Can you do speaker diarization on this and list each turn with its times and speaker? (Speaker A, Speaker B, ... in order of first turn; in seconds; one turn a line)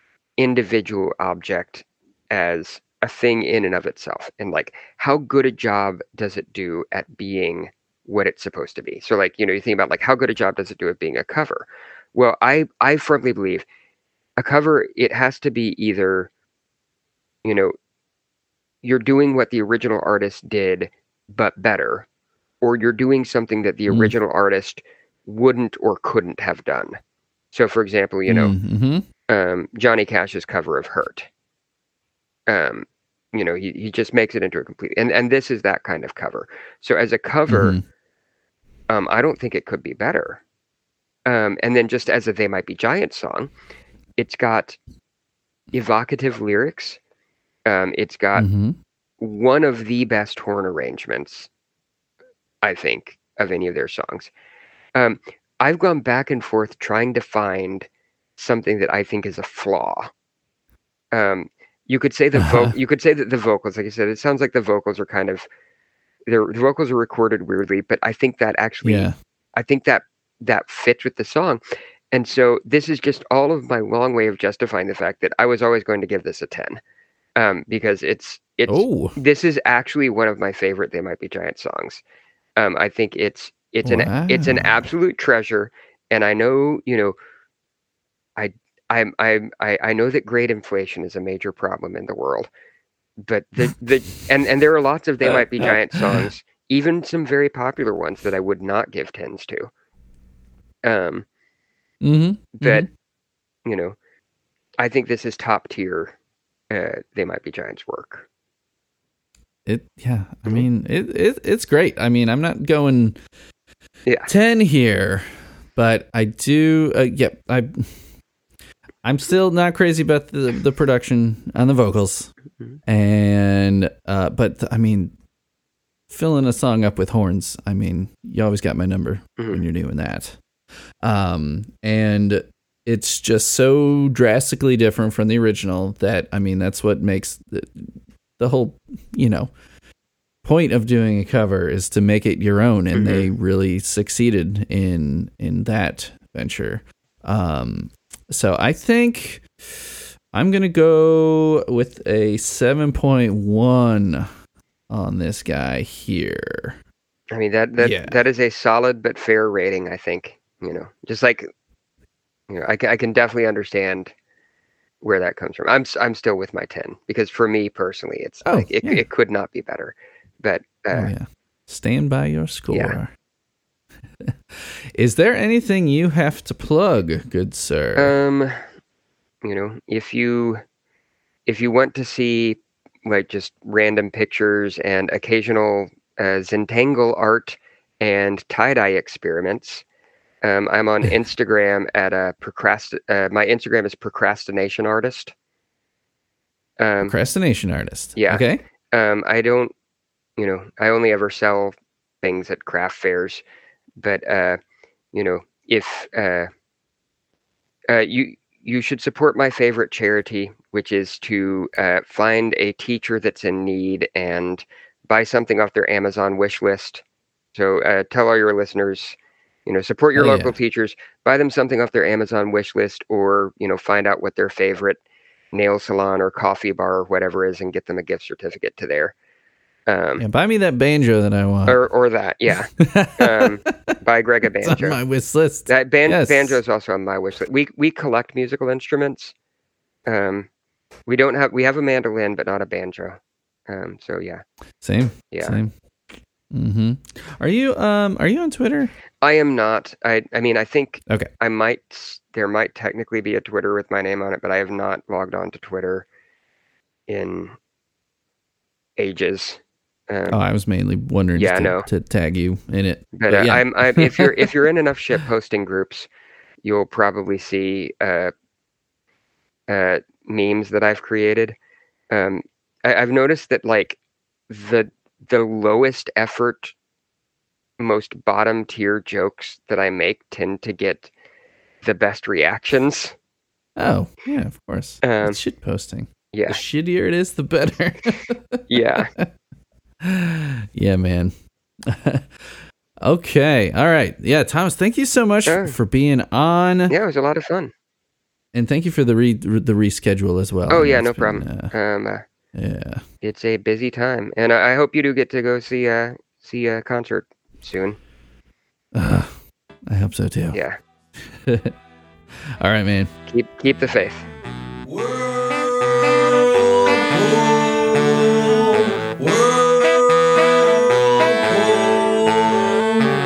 Speaker A: 0.4-13.7
Speaker A: 14.4-16.3
Speaker A: 17.4-17.7
Speaker A: 18.8-22.1
Speaker A: 22.6-27.0
Speaker B: 23.9-24.2
Speaker A: 27.5-28.5
Speaker B: 28.3-29.1
Speaker A: 29.3-31.3
Speaker A: 32.5-37.8
Speaker B: 37.5-37.8
Speaker A: 38.9-40.4
Speaker A: 41.3-43.5
Speaker A: 44.2-44.8
Speaker A: 45.7-47.0
Speaker A: 47.7-48.5
Speaker B: 48.4-48.8
Speaker A: 49.2-51.5
Speaker A: 52.6-54.3
Speaker A: 55.0-60.1
Speaker A: 61.1-65.5
Speaker B: 62.4-62.7
Speaker A: 66.3-76.8
Speaker B: 68.8-69.2
Speaker A: 77.4-82.0
Speaker B: 78.7-79.2
Speaker A: 82.6-87.2
Speaker B: 83.8-84.8
Speaker A: 88.4-92.5
Speaker A: 93.2-99.7
Speaker B: 95.2-96.2
Speaker A: 100.8-101.3
Speaker B: 102.0-102.9
Speaker A: 102.6-102.9
Speaker A: 103.7-104.0
Speaker A: 104.8-106.1
Speaker A: 106.7-108.2
Speaker B: 109.7-113.2
Speaker B: 114.3-118.0
Speaker B: 119.0-122.3
Speaker B: 122.9-125.1
Speaker B: 126.1-130.4
Speaker B: 131.0-139.5
Speaker B: 140.4-154.3
Speaker A: 142.9-143.3
Speaker B: 154.9-156.8
Speaker A: 157.3-161.5
Speaker B: 157.8-158.2
Speaker A: 162.5-164.1
Speaker A: 165.0-171.1
Speaker B: 168.4-169.0
Speaker B: 170.9-173.1
Speaker A: 172.7-173.0
Speaker B: 174.2-178.1
Speaker A: 178.0-178.6
Speaker A: 179.4-180.6
Speaker A: 181.5-189.8
Speaker A: 190.4-195.3
Speaker A: 196.8-197.2
Speaker B: 197.0-198.6
Speaker A: 198.2-199.7
Speaker A: 200.4-203.4
Speaker A: 204.0-204.6
Speaker A: 205.1-206.5
Speaker A: 207.9-217.0
Speaker A: 217.5-225.0
Speaker B: 220.2-220.6
Speaker A: 225.5-229.2
Speaker A: 229.9-230.2
Speaker B: 230.2-231.8
Speaker A: 231.7-235.0
Speaker B: 232.8-233.9
Speaker B: 234.6-236.6
Speaker A: 235.7-239.3
Speaker A: 240.1-240.5
Speaker A: 241.1-244.4
Speaker B: 244.8-245.7
Speaker A: 245.3-245.6
Speaker B: 246.5-248.9
Speaker A: 249.2-256.1
Speaker A: 257.1-257.6
Speaker A: 259.0-260.4
Speaker B: 260.3-264.5
Speaker A: 261.4-261.9
Speaker A: 263.2-266.1
Speaker A: 266.6-268.3
Speaker A: 269.7-271.6
Speaker A: 272.1-274.0
Speaker A: 274.5-276.7
Speaker A: 277.8-281.1
Speaker A: 281.8-283.1
Speaker B: 283.8-289.3
Speaker A: 285.0-285.4
Speaker A: 286.3-286.6
Speaker A: 288.7-289.1
Speaker B: 290.0-291.4
Speaker B: 291.9-296.9
Speaker A: 295.5-295.8
Speaker A: 296.9-297.7
Speaker B: 298.5-301.7
Speaker A: 300.7-302.2
Speaker B: 302.5-303.0
Speaker A: 303.2-308.0
Speaker B: 308.9-310.6
Speaker A: 310.5-310.8
Speaker B: 311.2-311.7
Speaker B: 312.4-313.1
Speaker A: 313.3-314.3
Speaker C: 314.9-322.6